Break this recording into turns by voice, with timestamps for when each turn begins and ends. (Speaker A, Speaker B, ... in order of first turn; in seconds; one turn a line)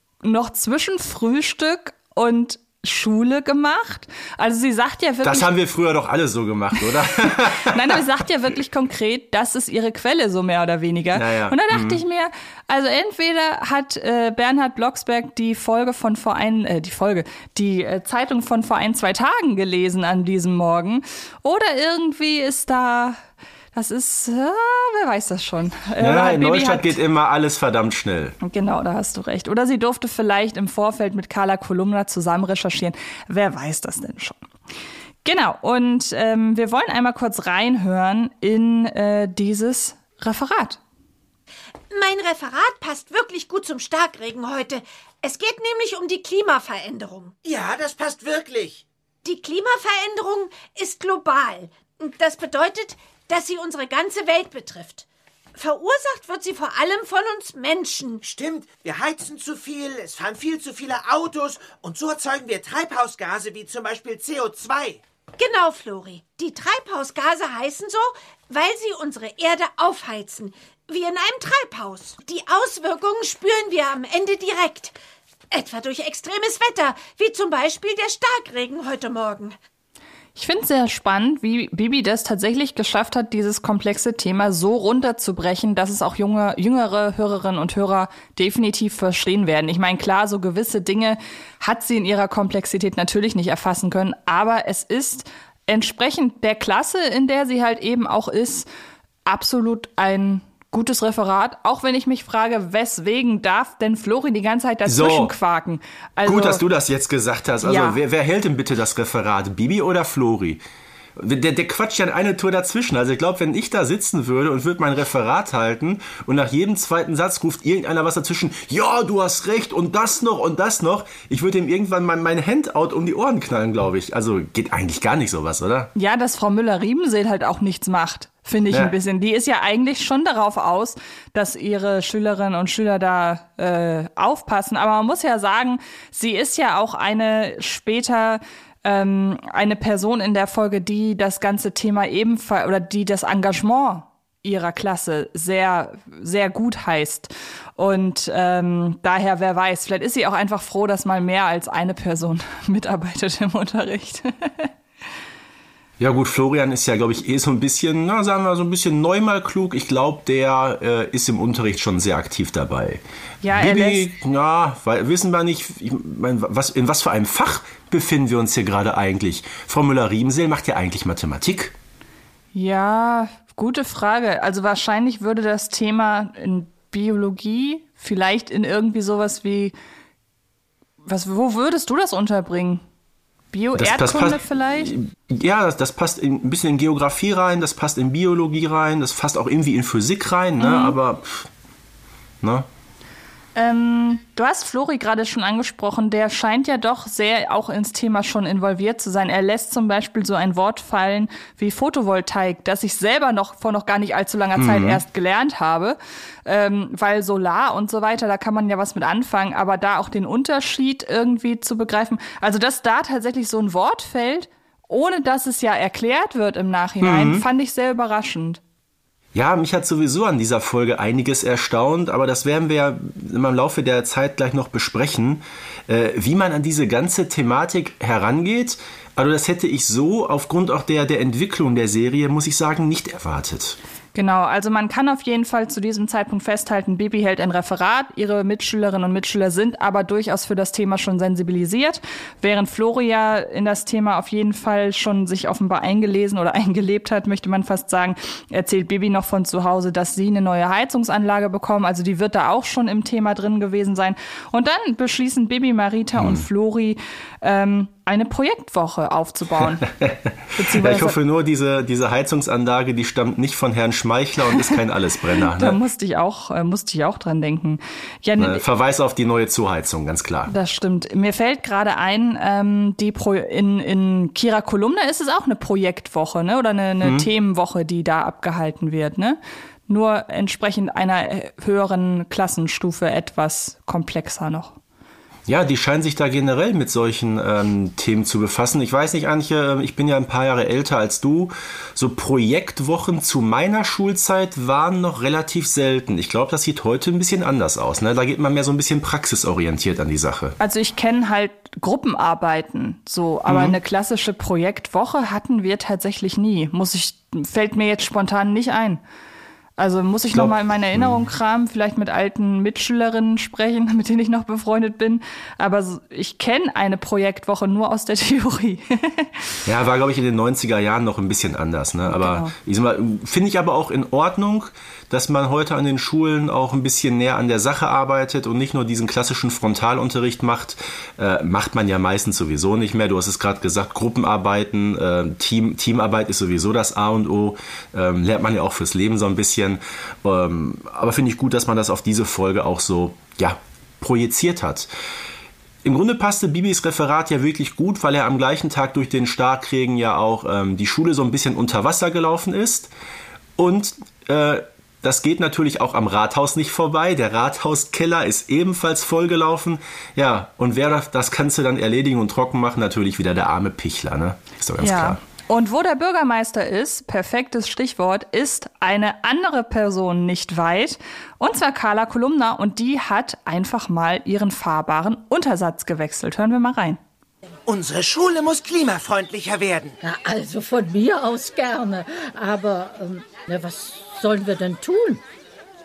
Speaker A: 0.2-5.5
Speaker B: 5.2-8.0
Speaker A: 7.2-23.2
Speaker B: 11.1-12.0
Speaker A: 23.7-26.9
Speaker B: 26.0-28.4
Speaker A: 28.4-34.4
Speaker A: 35.2-40.8
Speaker C: 41.9-47.3
Speaker D: 47.4-48.8
Speaker C: 49.2-58.2
Speaker D: 58.2-65.0
Speaker C: 65.4-75.0
Speaker C: 75.5-79.6
Speaker A: 80.4-98.7
Speaker A: 99.3-106.6
Speaker B: 104.9-105.3
Speaker B: 106.2-110.6
Speaker A: 107.6-108.0
Speaker B: 111.2-125.9
Speaker A: 126.0-154.7
Speaker B: 156.0-171.7
Speaker A: 163.4-164.1
Speaker A: 172.5-179.8
Speaker A: 181.1-182.8
Speaker A: 183.5-184.9
Speaker B: 183.8-191.5
Speaker A: 190.6-191.0
Speaker B: 192.4-192.7
Speaker A: 193.6-218.6
Speaker B: 204.6-205.0
Speaker B: 217.0-217.5
Speaker B: 219.3-233.8
Speaker A: 234.2-259.9
Speaker B: 256.2-256.4
Speaker B: 259.8-265.8
Speaker A: 260.6-261.2
Speaker A: 265.5-268.6
Speaker B: 268.4-270.5
Speaker A: 270.5-284.8
Speaker B: 277.0-277.3
Speaker B: 285.5-300.6
Speaker A: 300.6-309.0
Speaker B: 303.5-303.8
Speaker A: 309.8-319.6
Speaker B: 310.3-311.2
Speaker B: 319.7-344.9
Speaker A: 322.1-322.5
Speaker B: 345.8-352.9
Speaker B: 353.6-365.2
Speaker A: 364.8-377.0
Speaker D: 377.7-380.0
Speaker E: 380.0-385.2